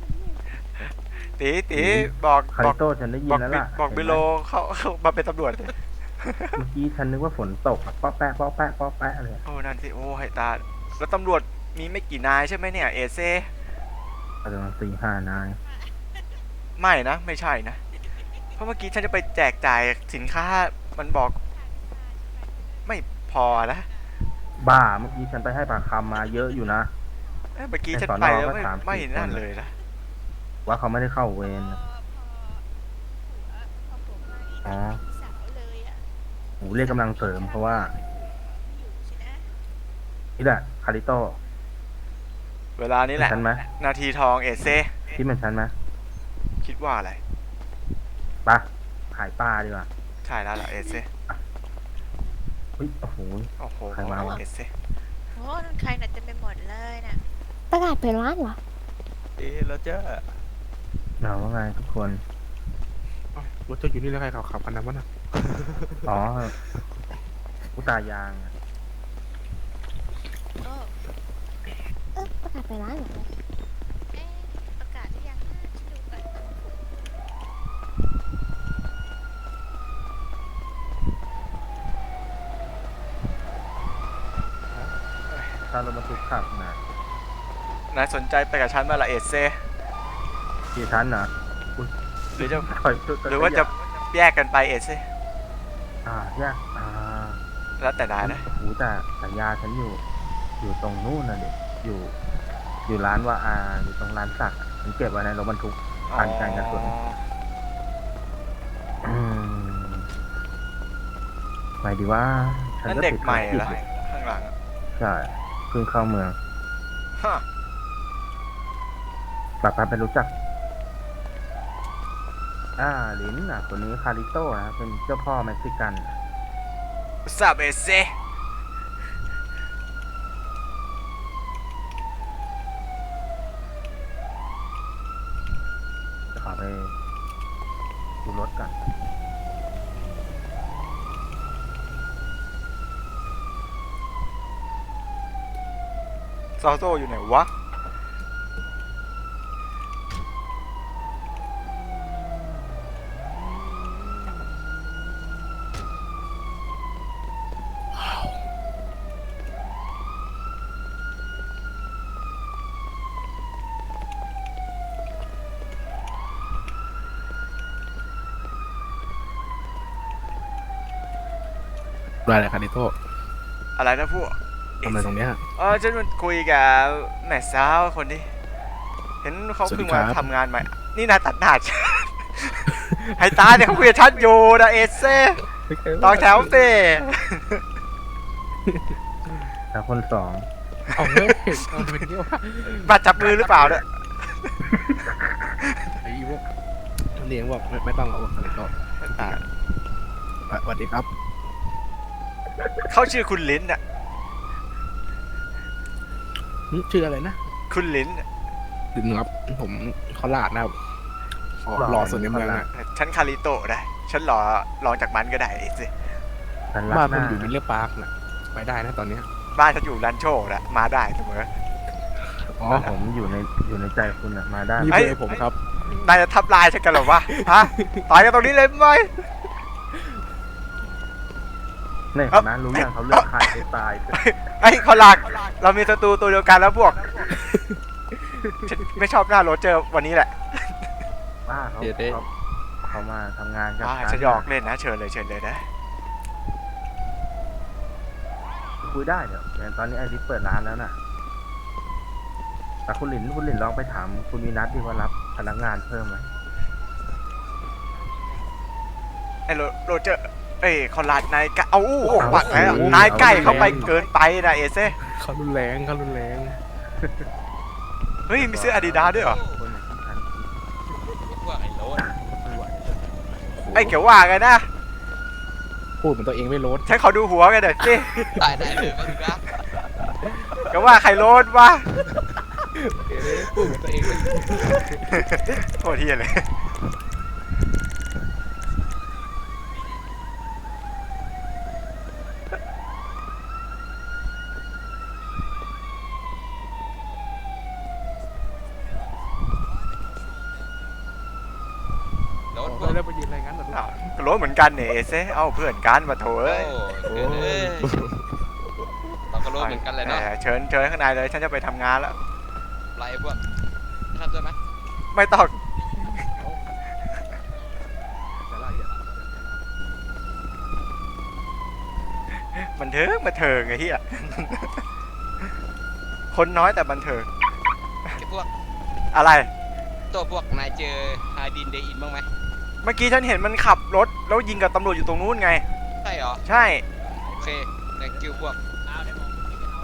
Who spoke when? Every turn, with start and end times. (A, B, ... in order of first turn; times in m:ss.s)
0:01.3-0:06.6 A
0:01.7-0:04.2 B
0:06.6-0:09.4 B
0:09.4-0:13.5 A
0:14.4-0:15.6 B
0:15.6-0:16.2 C
0:16.8-0:17.8 A
0:18.6-0:21.4 A
0:21.5-0:22.5 C
0:22.8-0:23.9 A
0:24.6-0:26.9 B
0:27.5-0:29.7 A
0:27.9-0:29.4 B
0:30.7-0:31.8 B
0:31.4-0:32.6 C
0:33.2-0:36.0 C
0:34.6-0:35.0 B
0:36.6-0:37.9 B
0:36.7-0:39.5 C
0:40.4-0:41.4 B
0:42.8-0:45.1 A
0:43.2-0:43.6 B
0:45.1-0:45.7 B
0:46.6-0:47.2 A
0:48.4-0:49.9 B
0:50.2-0:51.1 A
0:52.8-0:54.4 B
0:53.6-0:54.7 A
0:55.3-0:57.2 C
0:57.7-0:58.6 D
1:01.2-1:02.2 B
1:03.3-1:06.1 E
1:06.0-1:06.5 B
1:07.8-1:08.5 B
1:10.6-1:10.9 C
1:12.2-1:13.3 D
1:14.1-1:16.5 C
1:25.6-1:26.8 B
1:27.9-1:29.6 A
1:30.7-1:33.7 B
1:32.4-1:32.7 A
1:33.2-1:35.1 A
1:36.0-1:37.4 B
1:37.8-1:38.5 A
1:38.2-1:40.0 B
1:40.6-1:42.1 B
1:42.8-1:46.9 B
1:46.1-1:47.2 A
1:49.0-1:50.1 B
1:51.8-1:53.8 B
1:52.8-1:54.5 A
1:54.9-1:56.4 B
1:57.2-1:57.4 A
1:59.6-2:00.3 B
2:02.8-2:06.2 B
2:07.2-2:08.1 A
2:16.3-2:16.9 B
2:18.2-2:18.8 B
2:26.6-2:27.5 A
2:52.2-2:53.0 E
2:53.8-2:58.3 A
2:54.8-2:55.4 E
2:59.2-3:02.6 A
2:59.6-3:00.3 E
3:03.1-3:05.4 A
3:05.7-3:06.6 E
3:06.0-3:07.6 A
3:08.7-3:09.0 E
3:09.7-3:10.5 B
3:10.9-3:13.5 E
3:12.8-3:13.8 A
3:16.0-3:16.4 E
3:17.2-3:19.4 E
3:19.0-3:19.4 A
3:20.5-3:21.1 E
3:22.9-3:23.8 A
3:26.7-3:27.4 E
3:27.7-3:28.2 A
3:28.9-3:30.8 E
3:31.6-3:32.7 E
3:31.7-3:32.6 B
3:32.7-3:35.9 A
3:36.7-3:37.5 B
3:36.9-3:39.3 E
3:39.5-3:41.5 A
3:42.5-3:42.9 E
3:42.7-3:45.0 B
3:44.8-3:45.6 E
3:44.9-3:45.2 A
3:45.8-3:49.1 A
3:47.3-3:48.0 E
3:52.1-3:54.2 B
3:52.3-3:53.5 A
3:54.1-3:57.3 A
3:57.3-3:57.6 E
3:58.6-4:00.9 A
4:01.4-4:02.3 B
4:01.8-4:02.2 E
4:02.8-4:04.5 B
4:03.8-4:05.7 A
4:08.8-4:11.0 B
4:12.9-4:16.3 B
4:19.5-4:25.0 A
4:22.0-4:24.0 E
4:22.2-4:23.9 B
4:25.0-4:26.6 E
4:27.0-4:27.3 B
4:28.3-4:29.4 A
4:28.3-4:30.5 B
4:29.2-4:29.6 F
4:31.3-4:32.1 F
4:32.0-4:33.1 B
4:33.5-4:34.0 E
4:33.7-4:34.7 A
4:36.0-4:36.9 E
4:36.8-4:38.2 A
4:38.1-4:39.2 E
4:38.4-4:39.4 F
4:40.7-4:41.9 A
4:42.7-4:45.0 E
4:45.1-4:46.6 A
5:02.5-5:03.0 F
5:02.6-5:03.9 E
5:03.7-5:07.2 A
5:06.4-5:08.0 F
5:07.0-5:08.0 E
5:09.3-5:10.3 F
5:09.5-5:12.2 A
5:13.0-5:13.4 F
5:14.1-5:14.6 F
5:15.1-5:16.2 A
5:22.4-5:24.8 A
5:26.3-5:27.3 A
5:28.2-5:28.5 F
5:29.1-5:29.5 A
5:30.1-5:32.3 F
5:32.8-5:35.6 A
5:36.0-5:36.4 F
5:36.4-5:36.8 A
5:37.2-5:38.6 F